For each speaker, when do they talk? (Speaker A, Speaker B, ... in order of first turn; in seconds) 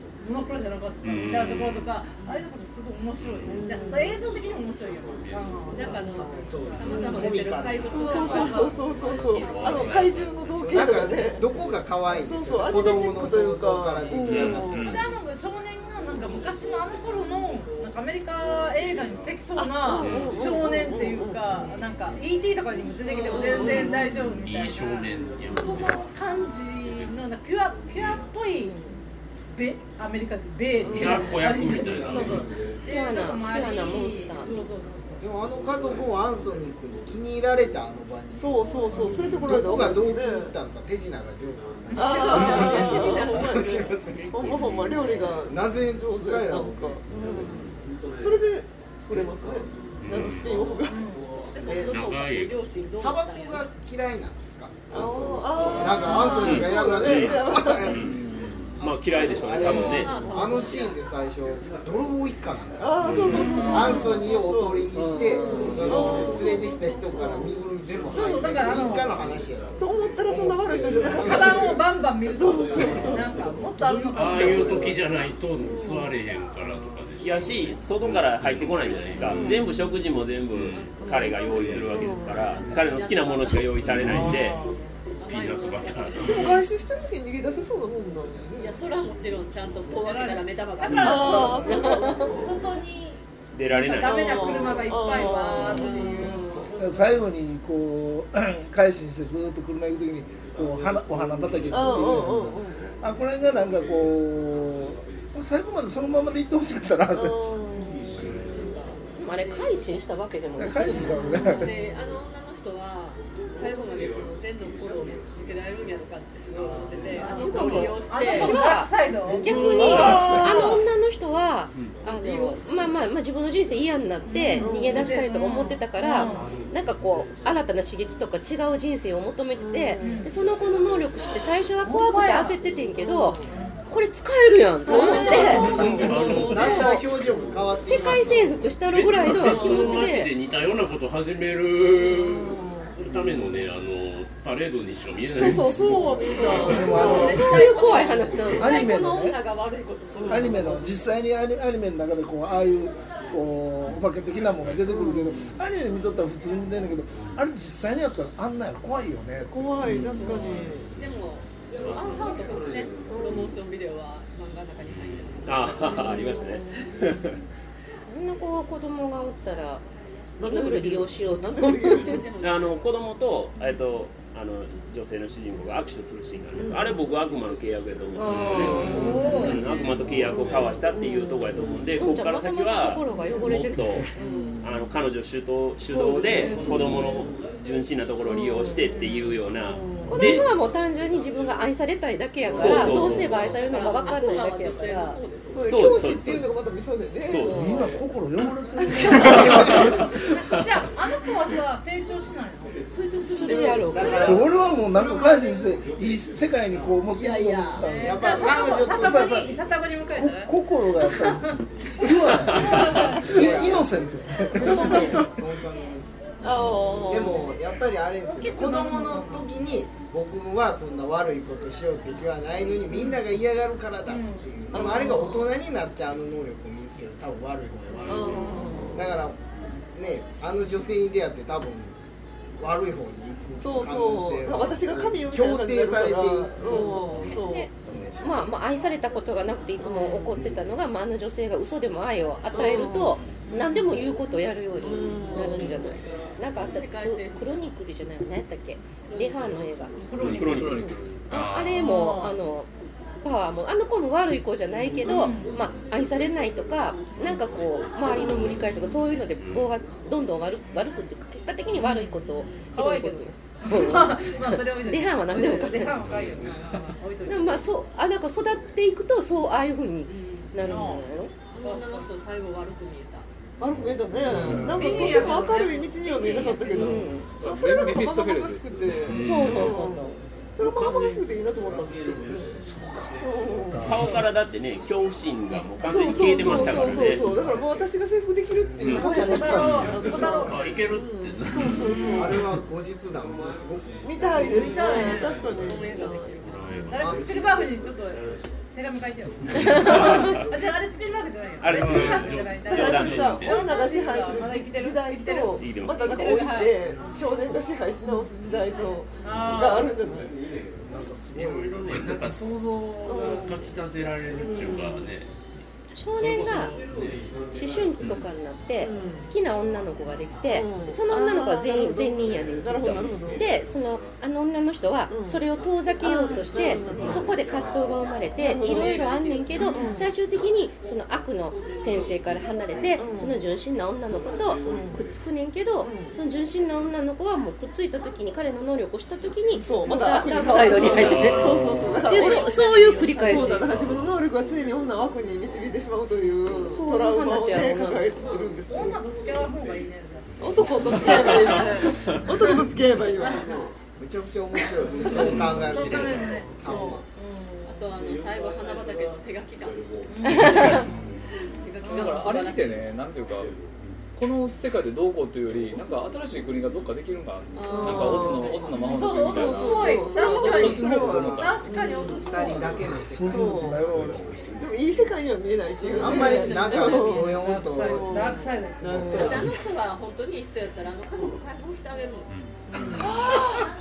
Speaker A: 0.2-9.7, 14.9-28.8, 29.5-35.3, 41.9-43.2, 50.9-51.3, 63.4-64.1, 68.1-69.1, 71.0-75.0, 89.9-97.2, 117.2-120.8, 124.3-126.5, 130.0-130.3, 131.8-132.6, 133.5-133.8, 134.9-135.9, 179.0-179.5, 199.3-202.8, 207.8-210.5, 211.1-211.6, 212.4-213.8, 214.6-215.2, 218.2-219.5, 224.1-225.1, 228.3-228.6, 250.1-250.5, 251.8-252.4, 255.1-255.5, 260.7-261.1, 261.8-267.7, 270.6-272.1, 274.7-277.0, 288.9-290.7, 294.4-295.4, 296.9-307.2, 309.2-309.9, 348.7-352.1, 355.1-357.9, 360.1-360.9, 361.8-362.5, 368.8-372.7, 376.0-379.5
Speaker B: 1.0-2.0, 3.2-3.6, 5.2-5.9, 9.3-10.9, 14.3-14.9, 20.0-20.4, 23.7-26.1, 28.0-28.2, 30.9-32.5, 44.3-45.4, 50.0-50.6, 51.7-52.6, 63.0-63.5, 74.1-79.7, 80.5-81.0, 81.5-82.0, 83.9-84.6, 85.2-86.6, 90.9-91.4, 119.3-120.5, 135.3-136.9, 138.9-146.8, 164.8-165.7, 178.3-179.6, 251.3-252.1, 258.1-258.7, 259.4-259.7, 279.1-279.8, 286.4-287.0, 289.8-292.1, 296.4-297.1, 299.7-300.1, 301.7-303.6, 311.4-315.3, 316.1-317.2, 340.8-342.1, 355.1-356.5
Speaker C: 3.5-4.2, 6.8-7.3, 7.9-11.5, 12.1-15.0, 19.6-21.7, 23.3-24.1, 28.7-28.9, 30.7-31.4, 32.1-32.4, 38.4-40.5, 41.9-51.1, 54.9-58.0, 59.6-60.7, 62.8-67.5, 69.8-71.8, 72.3-73.4, 75.6-76.1, 79.2-79.8, 81.0-81.3, 81.9-82.4, 84.0-84.8, 86.2-88.8, 91.0-92.7, 93.8-96.7, 101.7-103.0, 107.1-108.2, 111.0-111.8, 119.7-120.7, 124.6-125.3, 129.6-130.3, 132.9-133.5, 134.9-136.3, 139.5-139.8, 142.0-142.9, 145.3-147.7, 150.2-150.8, 154.8-155.6, 159.5-160.9, 163.1-163.6, 166.0-166.8, 170.4-172.3, 176.5-177.0, 178.2-181.9, 184.2-184.6, 185.8-187.3, 188.3-190.4, 195.5-197.9, 199.0-199.9, 212.9-213.8, 214.7-215.3, 216.4-217.6, 224.7-225.5, 228.1-229.1, 233.6-237.7, 239.8-240.4, 242.5-243.2, 244.8-245.9, 273.6-282.6, 283.2-284.2, 285.8-292.5, 294.0-296.3, 302.6-310.3, 313.0-313.7, 314.4-315.1, 318.8-319.3, 320.5-323.5, 325.1-325.5, 326.0-327.3, 328.4-328.9, 329.7-330.1, 332.9-333.4, 334.6-335.1, 335.8-336.2, 339.5-349.0, 350.4-353.7, 355.1-355.4, 356.6-357.0, 367.7-372.6, 373.3-373.9, 374.6-379.5, 382.7-383.1
Speaker D: 5.7-8.7, 23.1-23.9, 42.0-43.8, 51.2-53.7, 59.7-61.0, 80.7-84.5, 85.2-86.6, 88.5-92.1, 95.3-96.7, 108.2-109.8, 111.3-118.7, 122.1-123.0, 146.4-151.1, 161.0-166.2, 171.9-172.9, 184.2-184.5, 192.6-195.8, 202.9-204.3, 207.1-207.9, 236.6-237.4, 246.6-247.7, 249.0-249.7, 270.1-270.5, 271.5-273.3, 276.2-276.6, 294.8-296.7, 328.4-329.9, 357.7-360.9, 361.5-362.9, 367.5-369.3, 370.1-371.1, 375.9-377.4, 379.1-382.3, 382.9-383.4
Speaker E: 6.2-10.0, 10.6-15.0, 35.2-44.6, 45.5-47.6, 53.0-71.8, 135.3-138.8, 203.9-207.0, 207.9-209.3, 212.6-229.4, 229.9-232.0, 232.6-237.2, 237.8-238.5, 292.1-294.7, 296.9-297.6, 310.9-312.4, 354.0-357.1, 372.1-374.7, 375.9-378.3, 378.9-379.3
Speaker F: 32.9-34.7, 109.2-111.2, 117.3-137.1, 137.8-140.3, 146.8-148.9, 168.1-169.8, 170.4-172.2, 182.0-184.1, 190.1-195.2, 203.3-204.4, 237.3-249.9, 251.3-252.7, 253.2-266.2, 267.2-271.3, 276.7-277.3, 279.1-280.2, 288.9-289.8, 315.9-316.8, 317.5-343.7, 346.6-348.2
Speaker G: 56.4-57.4, 58.8-60.2, 77.2-84.6, 93.5-94.8, 165.5-167.3, 172.4-190.5, 192.5-193.5, 195.7-196.5, 197.2-197.8, 250.2-250.9, 283.8-287.3, 288.8-289.0, 301.6-303.5, 305.6-306.2
Speaker H: 96.8-107.4, 110.6-111.7, 146.7-147.6, 148.6-149.4, 150.3-159.8, 197.5-200.0, 204.2-208.2, 208.9-209.6, 210.1-215.2, 274.3-274.9, 373.0-374.6, 383.0-383.6
Speaker I: 250.1-251.0, 277.4-279.5, 361.9-363.5, 364.2-371.7